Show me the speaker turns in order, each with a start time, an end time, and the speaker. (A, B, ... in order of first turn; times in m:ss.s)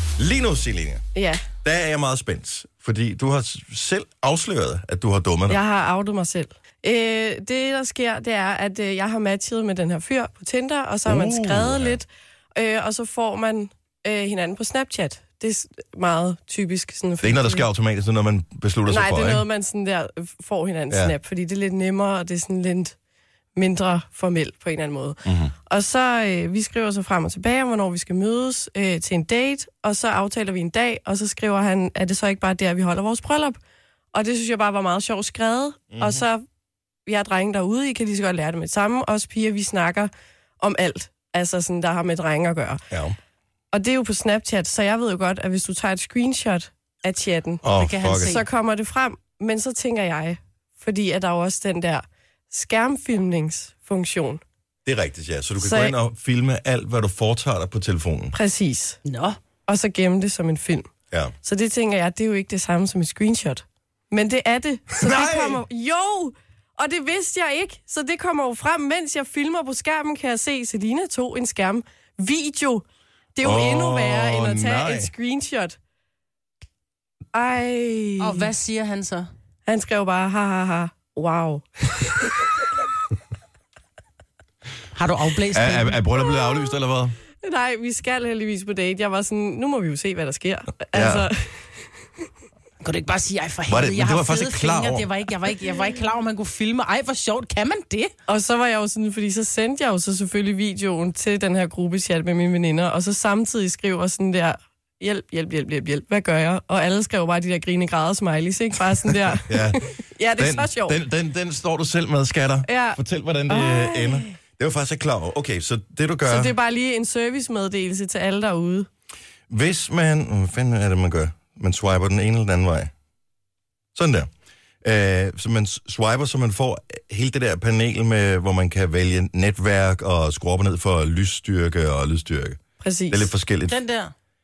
0:00.2-0:01.0 A
0:01.1-0:01.5 B
0:01.6-0:05.6 A
0:05.5-0:17.7 B
0:11.0-0:12.0 A
0:17.2-0:19.4 A
0:18.9-0:22.9 B
0:23.5-0:33.6 B
0:25.2-0:25.5 A
0:34.1-0:36.4 B
0:35.9-0:36.2 A
0:37.1-0:42.8 B
0:42.9-0:43.2 A
0:43.7-0:47.6 B
0:47.6-0:48.4 A
0:47.7-0:48.4 C
0:48.2-0:54.4 B
0:54.8-0:58.3 A
0:55.6-0:55.9 B
0:58.3-0:59.0 B
0:59.0-0:59.4 C
0:59.7-1:00.9 B
1:01.4-1:12.8 B
1:04.9-1:05.6 A
1:13.3-1:15.8 B
1:13.4-1:15.1 A
1:17.3-1:18.5 B
1:18.2-1:19.3 C
1:19.6-1:22.5 B
1:24.9-1:26.0 C
1:25.5-1:27.2 A
1:26.3-1:26.7 B
1:27.4-1:31.9 B
1:30.9-1:31.3 A
1:32.8-1:38.1 C
1:33.7-1:35.1 A
1:38.3-1:51.0 B
1:49.5-1:49.8 A
1:50.4-1:56.5 A
1:52.6-1:54.3 B
1:56.2-1:58.9 B
1:59.5-2:02.9 A
2:03.9-2:04.3 A
2:04.8-2:12.6 A
2:12.8-2:13.3 B
2:13.1-2:13.8 A
2:13.7-2:14.1 C